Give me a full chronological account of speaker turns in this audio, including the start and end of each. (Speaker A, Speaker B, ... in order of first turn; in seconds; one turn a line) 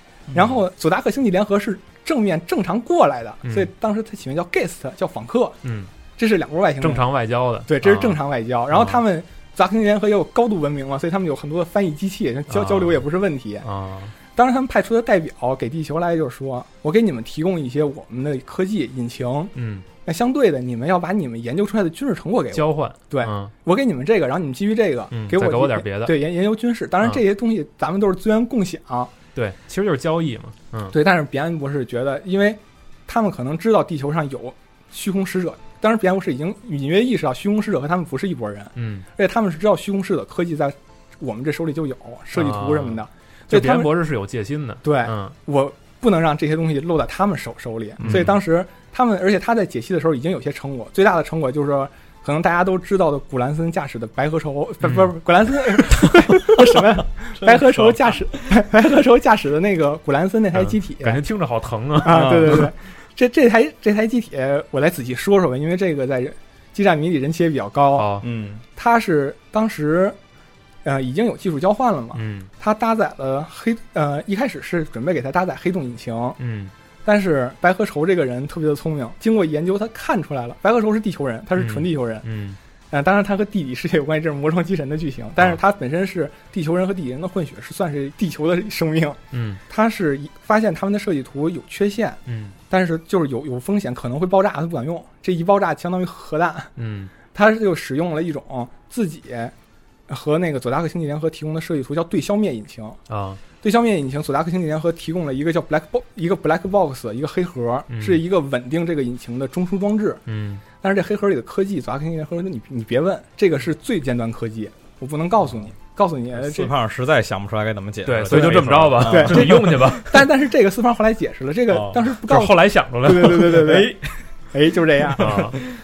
Speaker A: 0.3-5.5
Speaker B: 5.6-5.9
Speaker A: 6.2-7.0
Speaker B: 6.8-8.2
Speaker A: 7.7-13.7
Speaker B: 8.7-9.0
Speaker B: 12.5-13.0
Speaker B: 13.6-14.1
Speaker A: 14.3-19.5
Speaker B: 19.5-19.9
Speaker A: 20.0-29.1
Speaker B: 22.5-23.5
Speaker B: 25.1-26.2
Speaker B: 29.3-30.9
Speaker A: 30.9-43.9
Speaker B: 38.8-39.0
Speaker B: 42.3-45.3
Speaker A: 44.8-61.2
Speaker C: 48.0-48.3
Speaker B: 48.0-48.4
Speaker B: 54.8-55.1
Speaker C: 57.4-58.4
Speaker B: 60.5-62.7
Speaker A: 62.0-68.1
Speaker C: 62.0-62.7
Speaker B: 67.9-68.2
Speaker C: 68.2-68.6
Speaker A: 68.8-70.2
Speaker A: 70.8-76.4
Speaker B: 72.1-72.5
Speaker B: 76.4-76.7
Speaker A: 77.0-82.2
Speaker B: 81.6-82.6
Speaker A: 82.9-96.7
Speaker B: 89.3-89.6
Speaker B: 92.3-92.5
Speaker B: 96.8-97.1
Speaker A: 97.3-99.5
Speaker A: 100.1-103.0
Speaker B: 103.1-103.4
Speaker A: 103.6-110.2
Speaker B: 107.9-108.2
Speaker B: 110.3-110.6
Speaker A: 110.8-116.7
Speaker C: 116.3-120.0
Speaker B: 118.0-120.2
Speaker A: 118.3-123.9
Speaker C: 121.7-122.0
Speaker B: 122.1-123.8
Speaker C: 123.2-124.3
Speaker A: 124.5-125.6
Speaker B: 125.2-125.6